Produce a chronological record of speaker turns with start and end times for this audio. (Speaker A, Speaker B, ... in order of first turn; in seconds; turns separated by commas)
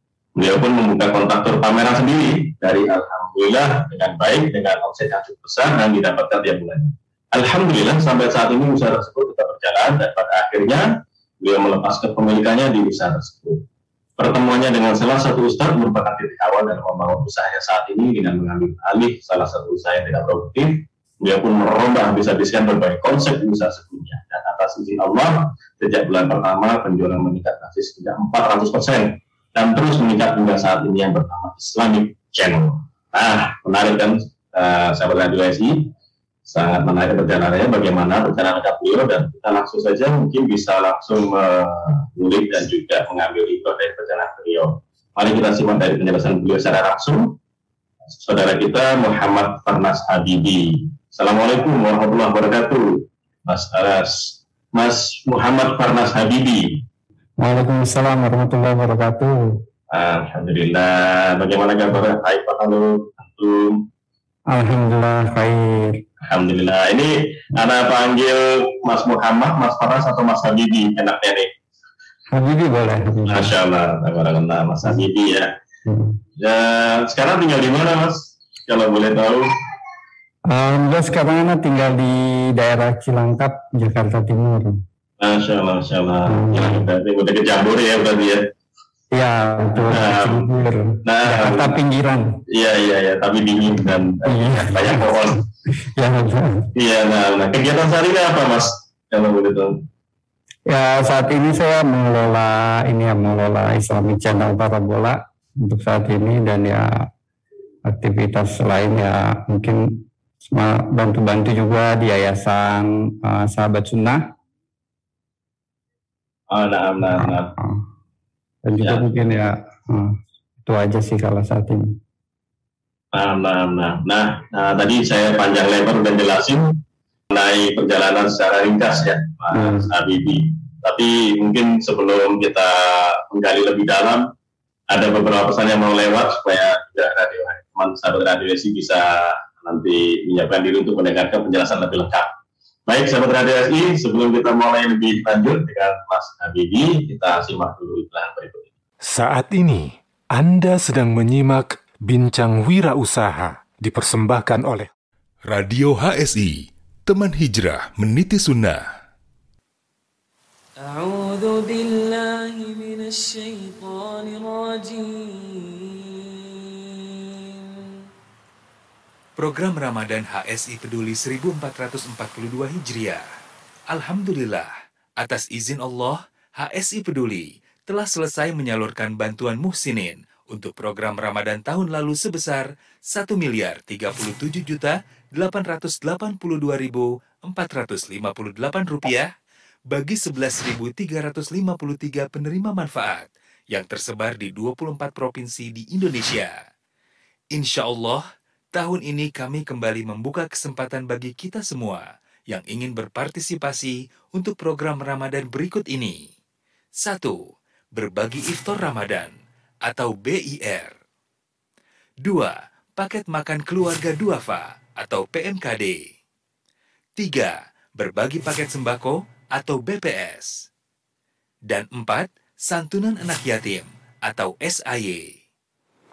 Speaker A: 0.3-10.8, Speaker A: 11.4-13.6, Speaker A: 14.2-35.9, Speaker A: 36.5-47.4, Speaker A: 48.2-56.8, Speaker B: 57.4-59.6, Speaker A: 59.9-63.9, Speaker B: 64.5-66.0, Speaker A: 66.2-71.5, Speaker B: 72.3-73.5, Speaker A: 73.3-75.5, Speaker B: 75.8-76.2, Speaker A: 76.4-79.4, Speaker B: 80.5-84.8, Speaker A: 85.2-88.5, Speaker B: 86.3-86.8, Speaker B: 89.1-92.4, Speaker A: 89.9-90.5, Speaker A: 91.0-91.7, Speaker A: 92.5-95.4, Speaker B: 94.2-96.7, Speaker A: 96.7-99.8, Speaker B: 100.7-107.1, Speaker B: 107.8-114.3, Speaker A: 116.5-117.5, Speaker B: 117.0-117.8, Speaker B: 118.6-122.0, Speaker A: 118.8-119.3, Speaker A: 123.1-126.8, Speaker A: 127.3-134.3, Speaker B: 129.5-129.9, Speaker A: 134.9-142.3, Speaker A: 142.9-148.7, Speaker C: 149.0-154.9, Speaker D: 155.5-158.8, Speaker E: 160.8-168.0, Speaker F: 169.4-173.2, Speaker F: 173.9-189.3, Speaker F: 189.9-196.6, Speaker F: 197.5-206.2, Speaker F: 207.0-207.4, Speaker F: 207.9-209.3, Speaker F: 209.8-210.9, Speaker F: 212.2-216.0, Speaker F: 217.2-220.6, Speaker F: 221.7-225.3